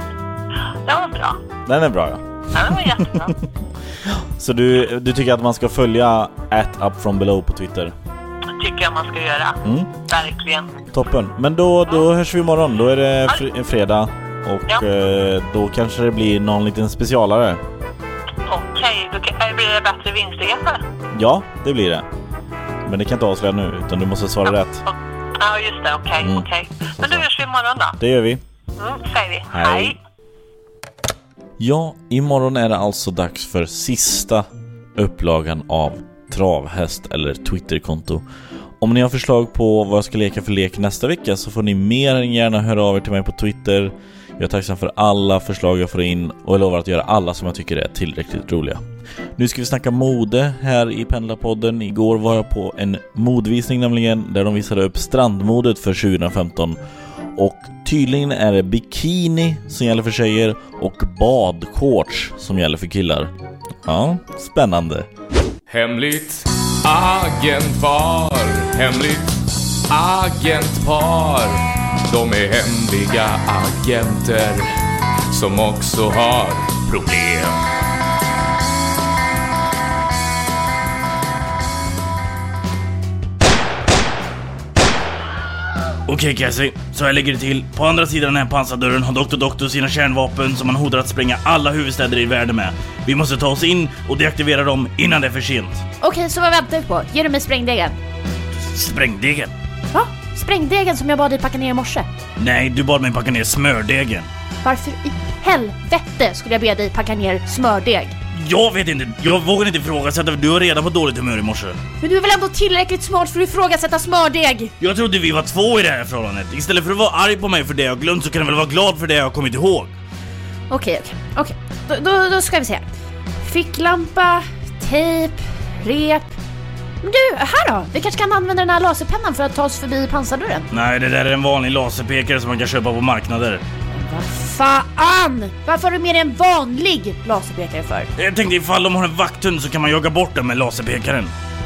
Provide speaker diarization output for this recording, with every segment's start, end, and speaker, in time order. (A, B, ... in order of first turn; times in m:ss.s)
0:00.9-0:01.4 A
0:01.7-0:02.3 B
0:02.5-0:03.3 A
0:02.8-0:03.4 B
0:04.0-0:07.9 B
0:08.6-0:10.7 A
0:09.6-0:09.9 B
0:10.9-0:17.6 B
0:18.5-0:20.8 A
0:21.1-0:22.1 B
0:22.9-0:24.8 B
0:24.5-0:28.0 A
0:26.2-0:26.5 B
0:27.0-0:27.3 B
0:28.0-0:28.4 B
0:28.8-0:30.0 A
0:29.5-0:30.0 B
0:31.6-0:38.2 B
0:38.8-0:48.8 B
0:49.4-0:56.8 B
0:57.4-1:03.3 B
1:03.8-1:05.1 B
1:05.7-1:09.3 C
1:09.9-1:14.7 C
1:15.3-1:17.6 C
1:26.1-1:35.8 D
1:36.0-1:38.0 E
1:38.6-1:39.5 D
1:39.9-1:42.1 E
1:42.4-1:44.3 D
1:44.6-1:48.2 E
1:48.3-1:51.8 D
1:52.0-1:54.7 E
1:54.8-1:59.9 D
2:00.7-2:02.8 E
2:03.4-2:06.4 E
2:07.0-2:10.7 E
2:10.7-2:13.6 D
2:13.9-2:18.1 E
2:18.2-2:21.3 D